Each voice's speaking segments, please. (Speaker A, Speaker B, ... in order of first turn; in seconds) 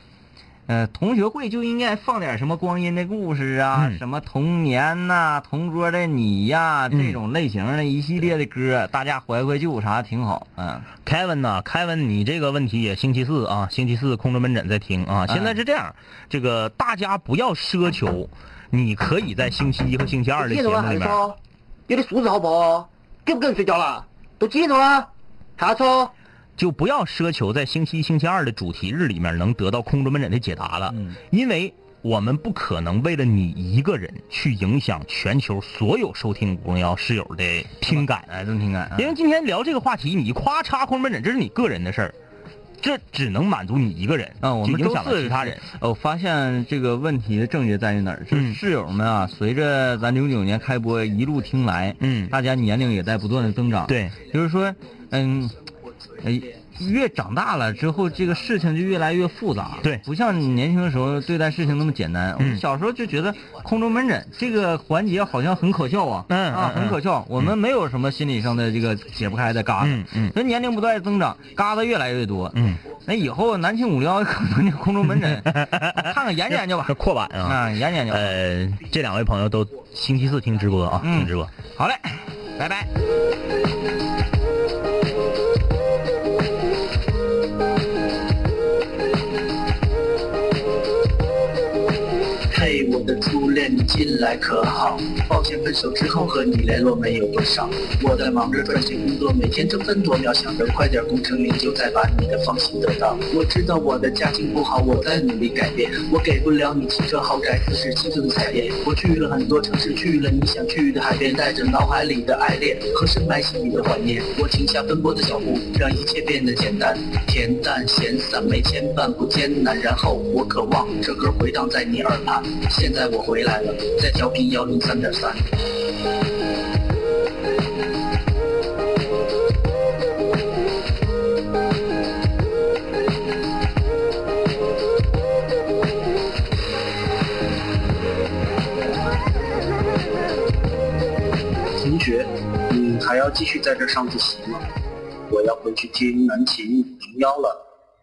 Speaker A: 0.7-10.9, 15.3-15.6, 30.9-31.2, 37.8-39.1, 44.4-55.6, 56.2-78.3, 81.0-82.9
Speaker B: 6.9-7.2, 11.0-21.2, 26.6-38.3, 39.0-42.1, 42.8-45.6, 48.3-48.6, 52.0-52.3, 53.9-54.2, 62.4-62.6, 66.3-67.5, 69.8-70.3, 72.5-72.8, 75.2-81.5
Speaker C: 20.4-21.4, 21.9-26.1
Speaker D: 92.5-125.5, 141.7-144.6, 145.3-147.6